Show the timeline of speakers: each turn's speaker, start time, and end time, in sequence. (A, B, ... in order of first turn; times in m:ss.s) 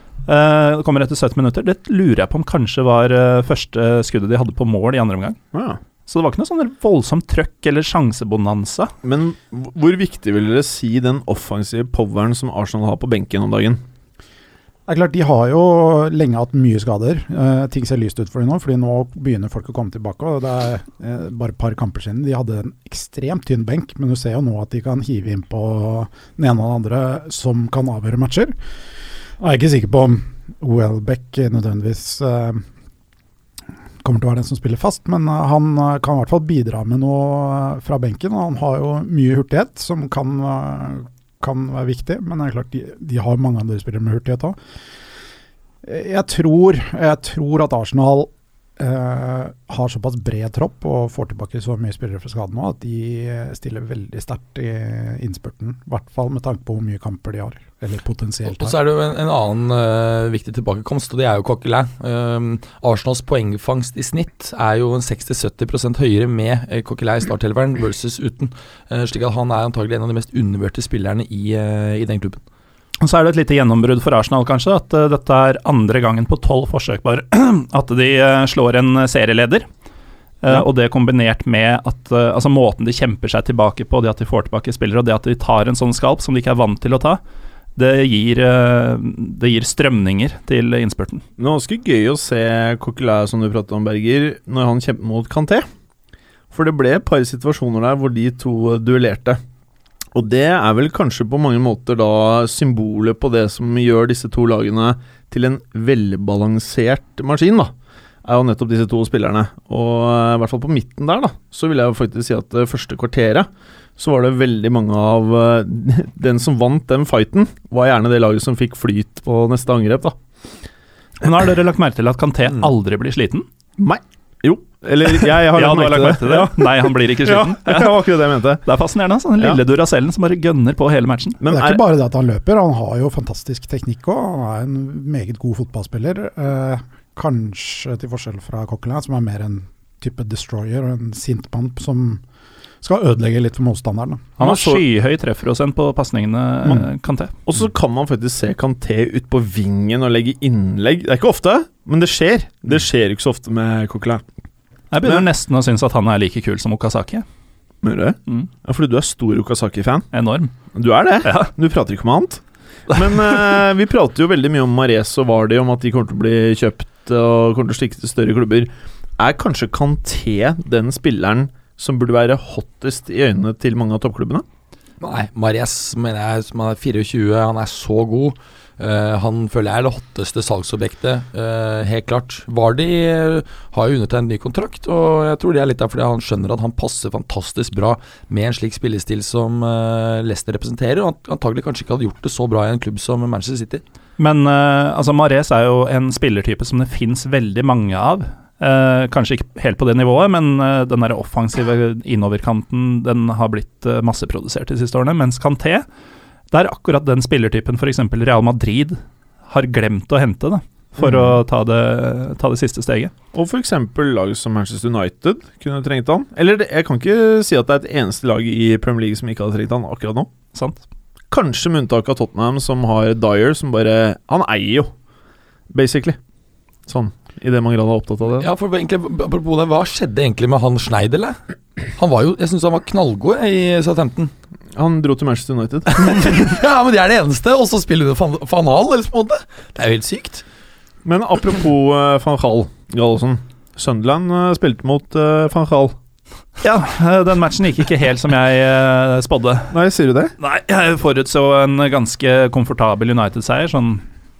0:00.3-0:05.4 A
0:05.5-0:05.8 B
0:06.1-0:08.9 A
0:09.0-0:13.8 B
0:14.9-0:28.5 C
0:29.4-0:32.6 C
0:34.0-0:44.6 C
0:45.8-0:58.8 C
0:58.5-1:12.4 D
1:13.0-1:19.6 A
1:20.4-1:27.2 A
1:27.8-1:31.2 A
1:31.4-1:35.6 B
1:36.5-1:39.4 B
1:40.1-1:47.7 B
1:48.2-2:00.2 B
2:01.2-2:03.4 A
2:03.8-2:08.6 B
2:05.2-2:08.0 A
2:08.6-2:11.4 A
2:11.4-2:11.8 B
2:11.5-2:22.2 C
2:22.8-2:24.4 C
2:24.4-2:27.3 A
2:24.4-2:24.8 B
2:27.4-2:34.2 B
2:34.9-2:37.2 A
2:37.8-2:40.1 B
2:40.1-2:40.5 A
2:40.7-2:54.4 B
2:41.2-2:41.5 A
2:42.9-2:43.4 A
2:55.0-3:13.8 D
3:14.2-3:25.8 A
3:26.5-3:33.1 A
3:31.0-3:31.3 B
3:33.3-3:40.3 B
3:40.5-3:40.8 A
3:41.3-3:44.9 B
3:45.7-3:46.2 B
3:46.9-3:48.5 B
3:48.4-3:51.4 D
3:52.0-3:54.3 D
3:54.8-3:56.4 B
3:55.9-4:00.4 D
4:01.0-4:05.9 B
4:06.6-4:09.7 A
4:09.7-4:10.3 B
4:10.4-4:14.0 A